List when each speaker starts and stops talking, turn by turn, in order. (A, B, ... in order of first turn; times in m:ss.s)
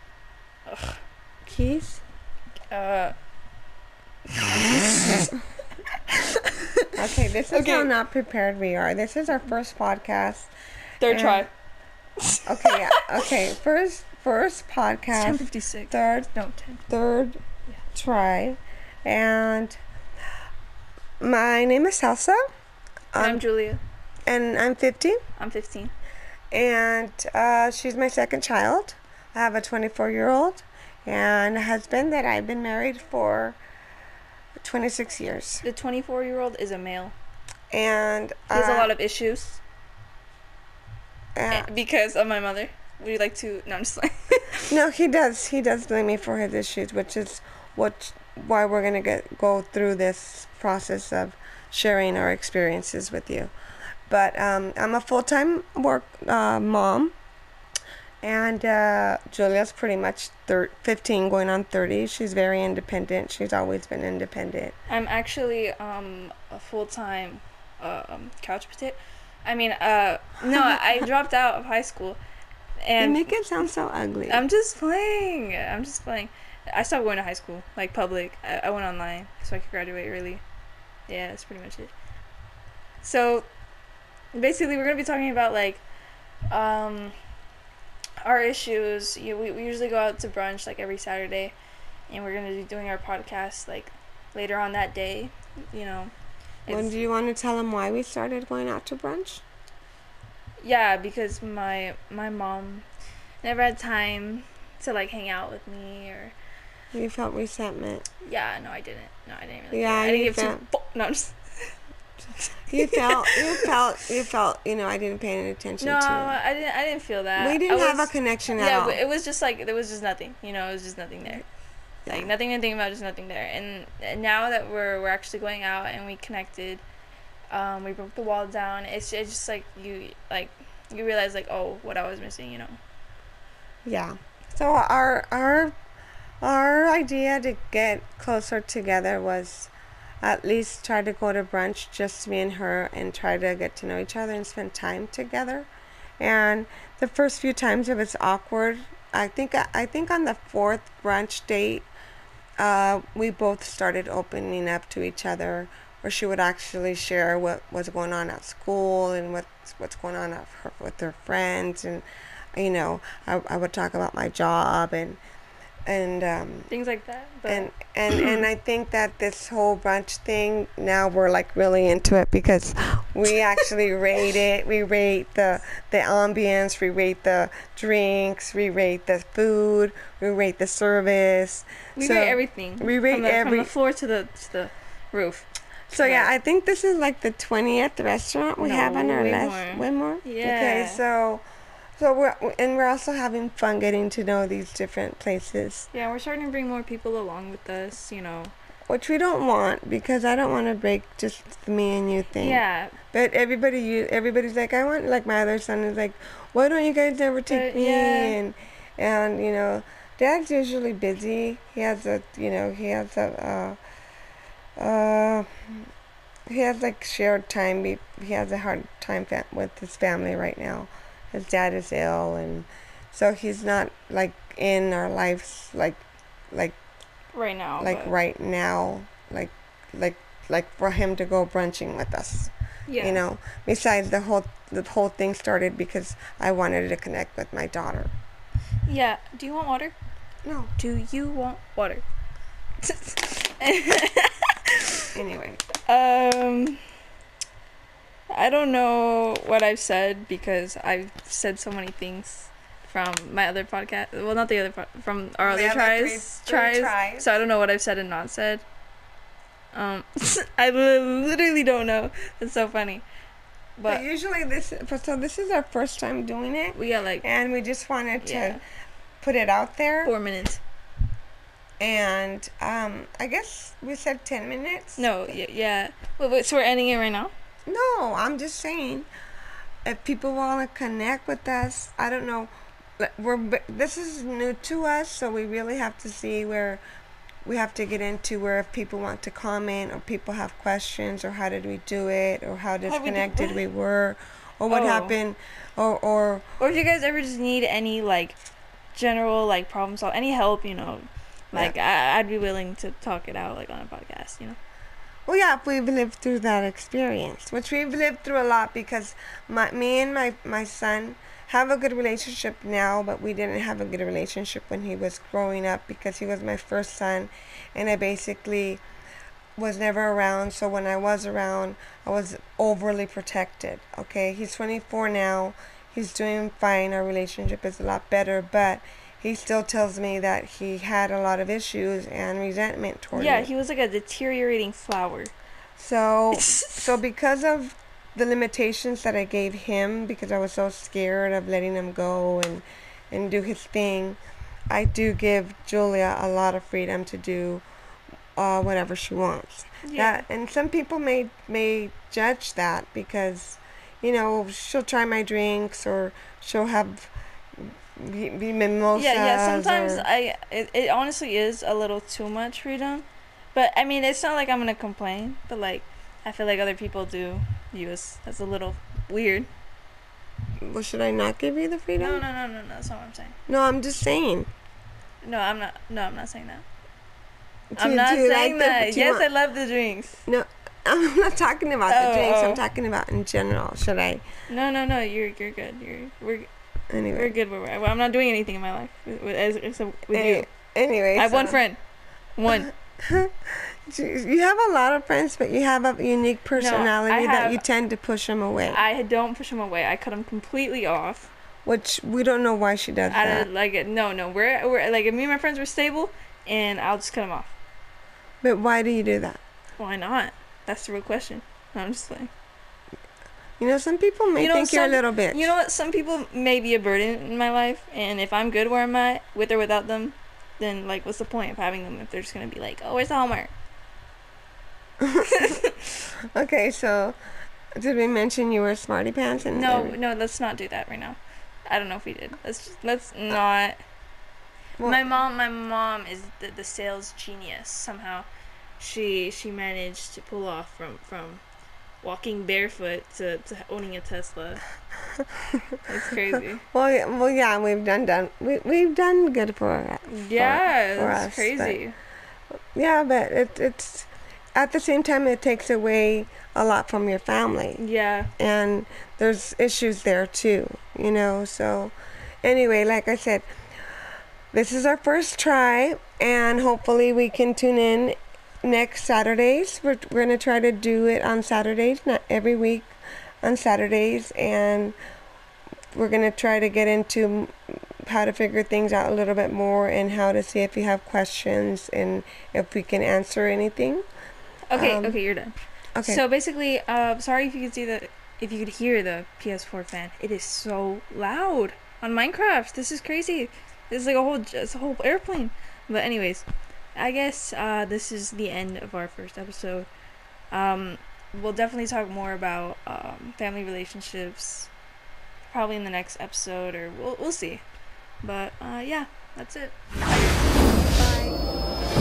0:00.6-0:01.0 A
0:01.4-0:02.0 B
0:02.7-0:03.1 A
0:04.3-0:05.3 A
0:06.1-0:06.9 A
0:06.9-0:10.5 B
0:07.5-0:07.9 A
0:11.0-0:11.5 A
0:11.0-0:11.4 B
0:12.2-0:13.0 A
0:12.4-0:17.4 B
0:15.1-0:16.8 A
0:17.9-0:19.8 B
0:21.2-0:22.4 B
0:23.1-0:23.4 B
0:23.2-0:23.8 A
0:24.2-0:25.2 B
0:25.4-0:25.9 A
0:26.5-0:33.6 B
0:34.6-0:35.6 B
0:35.6-0:37.1 A
0:37.7-0:38.9 B
0:38.5-0:39.6 A
0:41.4-0:41.7 B
0:41.5-0:44.7 A
0:44.7-0:53.5 B
0:54.1-0:57.1 B
0:58.2-1:04.7 B
1:04.9-1:12.2 A
1:12.8-1:13.3 A
1:13.0-1:14.4 B
1:14.3-1:20.4 A
1:21.1-1:21.9 A
1:23.0-1:23.5 A
1:24.3-1:25.8 A
1:26.5-1:27.1 A
1:28.2-1:31.5 A
1:32.1-1:36.1 A
1:36.6-1:36.9 A
1:36.7-1:39.4 B
1:40.6-1:42.8 A
1:43.4-1:46.3 A
1:46.9-1:48.0 B
1:48.2-1:51.7 A
1:49.7-1:50.6 B
1:52.4-1:53.7 A
1:52.7-1:56.4 B
1:55.8-2:01.4 A
1:57.4-1:59.0 B
2:02.1-2:06.8 A
2:07.5-2:12.8 A
2:13.8-2:15.7 B
2:16.4-2:25.7 B
2:26.2-2:31.9 B
2:32.6-2:42.0 B
2:42.5-2:45.2 B
2:45.8-2:46.7 B
2:46.7-2:48.4 A
2:47.5-3:03.7 B
3:02.0-3:06.3 A
3:05.9-3:11.4 B
3:08.6-3:11.0 A
3:12.0-3:15.9 B
3:15.9-3:18.5 A
3:18.9-3:33.8 B
3:22.3-3:22.9 A
3:27.5-3:28.4 A
3:34.8-3:35.9 B
3:36.5-3:46.8 B
3:47.3-3:48.1 A
3:47.8-3:58.1 B
3:52.9-3:53.2 A
3:58.8-3:59.9 A
4:00.4-4:00.7 B
4:00.8-4:02.0 A
4:02.8-4:05.0 A
4:05.1-4:05.6 B
4:05.8-4:06.8 A
4:08.3-4:18.6 A
4:15.4-4:17.4 B
4:19.7-4:23.0 A
4:23.8-4:24.0 A
4:23.9-4:28.6 B
4:26.7-4:27.2 A
4:28.2-4:28.6 A
4:29.2-4:30.1 B
4:30.0-4:30.6 A
4:31.8-4:35.3 B
4:35.0-4:37.3 A
4:37.6-4:39.1 B
4:39.8-4:46.8 B
4:47.4-4:56.4 B
4:52.8-4:53.6 A
4:54.7-4:55.2 A
4:56.6-4:58.4 A
4:58.9-5:04.6 A
5:05.2-5:18.8 B
5:19.6-5:33.5 B
5:33.1-5:35.3 A
5:35.8-5:44.2 B
5:36.3-5:36.9 A
5:44.7-5:47.6 B
5:48.4-6:00.0 B
5:49.8-5:50.2 A
5:58.9-6:09.5 A
6:10.6-6:12.2 B
6:12.0-6:13.3 A
6:13.5-6:14.5 B
6:15.2-6:16.6 A
6:17.7-6:19.3 B
6:17.8-6:20.2 A
6:20.2-6:24.2 B
6:21.9-6:22.6 A
6:24.5-6:26.5 A
6:26.9-6:27.3 B
6:27.1-6:30.5 A
6:30.1-6:31.6 B
6:31.2-6:31.8 A
6:32.4-6:32.7 A
6:33.0-6:38.8 B
6:36.6-6:37.6 A
6:38.7-6:41.3 A
6:41.6-6:43.5 B
6:43.1-6:47.5 A
6:48.4-6:49.4 B
6:49.8-6:52.3 A
6:53.6-6:55.5 B
6:54.4-7:03.5 A
7:05.0-7:05.4 B
7:05.3-7:05.9 A
7:06.3-7:07.2 B
7:07.8-7:10.0 B
7:09.5-7:13.8 A
7:14.8-7:18.3 A
7:18.8-7:21.4 A
7:22.0-7:24.6 A
7:25.9-7:26.6 A
7:26.7-7:31.8 B
7:30.0-7:32.0 A
7:32.7-7:37.8 B
7:37.8-7:38.3 A
7:38.4-7:43.5 B
7:44.5-7:54.9 B
7:55.9-8:04.0 B
8:04.7-8:19.9 A
8:04.7-8:05.2 B
8:05.9-8:06.2 B
8:20.5-8:24.7 A
8:25.5-8:27.6 A
8:28.2-8:31.4 A